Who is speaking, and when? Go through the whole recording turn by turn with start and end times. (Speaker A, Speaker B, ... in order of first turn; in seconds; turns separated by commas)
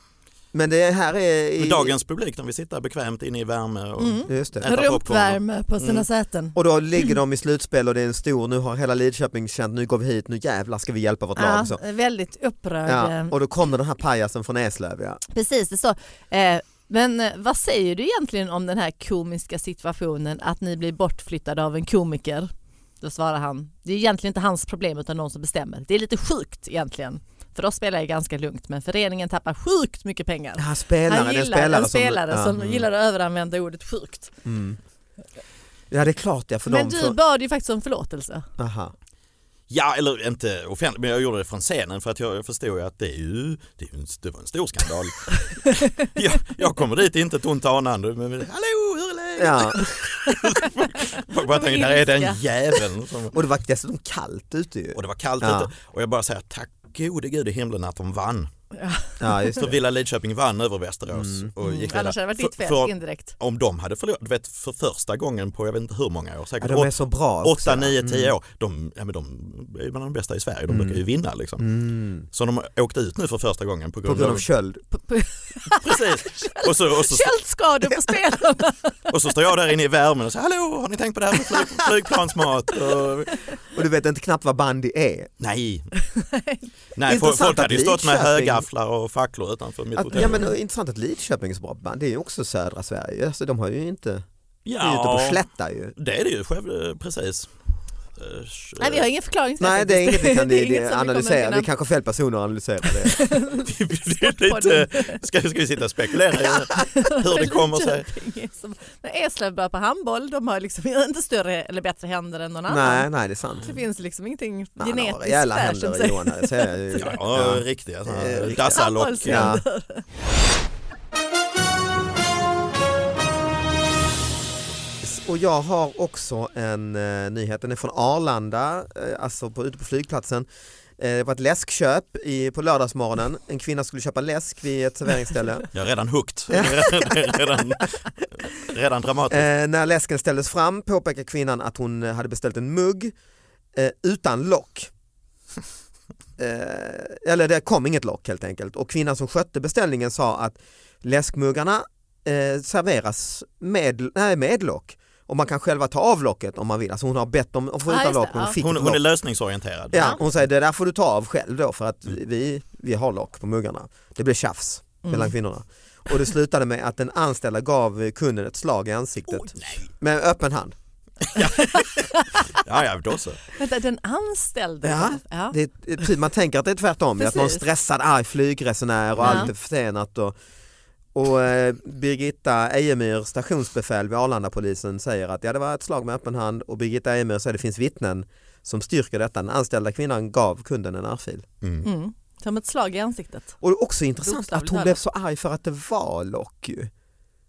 Speaker A: 0.5-2.0, Speaker B: 1.6-6.0, Speaker C: 4.0-7.1, Speaker A: 4.3-4.7, Speaker A: 6.5-11.8, Speaker C: 11.4-13.3, Speaker A: 12.9-15.2, Speaker C: 15.3-34.3, Speaker A: 30.6-32.6, Speaker A: 34.5-34.8, Speaker A: 35.9-37.2, Speaker C: 36.7-38.5, Speaker A: 38.6-38.9, Speaker B: 39.7-53.4, Speaker C: 45.7-46.0, Speaker A: 49.4-50.0, Speaker C: 51.4-52.4, Speaker A: 53.3-55.7, Speaker B: 55.0-58.5, Speaker C: 58.8-59.6, Speaker A: 59.2-59.8, Speaker B: 59.6-66.9, Speaker A: 61.1-61.5, Speaker C: 61.6-63.3, Speaker A: 66.6-68.3, Speaker B: 67.4-71.7, Speaker A: 70.7-71.0, Speaker A: 71.6-72.3, Speaker B: 72.3-74.5, Speaker A: 74.0-74.8, Speaker C: 74.9-79.1, Speaker B: 75.8-77.3, Speaker B: 79.1-83.4, Speaker A: 83.7-85.3, Speaker B: 85.4-85.9, Speaker C: 86.1-86.7, Speaker B: 87.0-90.4, Speaker A: 87.1-88.7, Speaker A: 90.0-94.2, Speaker B: 94.7-95.4, Speaker A: 94.8-95.9, Speaker B: 96.0-97.5, Speaker B: 98.2-99.0, Speaker C: 98.8-101.7, Speaker A: 99.6-103.3, Speaker C: 103.0-105.2, Speaker B: 103.6-108.1, Speaker C: 106.7-113.1, Speaker A: 112.7-113.7, Speaker C: 113.6-117.1, Speaker A: 114.8-118.6, Speaker B: 117.0-119.5, Speaker C: 118.4-120.0, Speaker A: 119.3-119.6, Speaker A: 125.0-135.7, Speaker B: 135.7-139.4, Speaker A: 136.5-137.6, Speaker A: 139.3-143.2, Speaker A: 143.8-144.9, Speaker A: 146.4-159.0, Speaker C: 157.9-158.6, Speaker B: 158.6-160.2, Speaker A: 159.9-170.8, Speaker C: 165.0-165.4, Speaker C: 169.3-169.6, Speaker B: 169.6-169.8, Speaker B: 171.3-173.4, Speaker C: 171.8-172.6, Speaker C: 173.6-176.1, Speaker A: 174.8-180.4, Speaker C: 177.2-177.6, Speaker B: 179.2-179.5, Speaker C: 179.2-179.5, Speaker A: 181.1-191.4, Speaker C: 191.8-193.6, Speaker A: 193.6-196.9, Speaker C: 194.2-195.0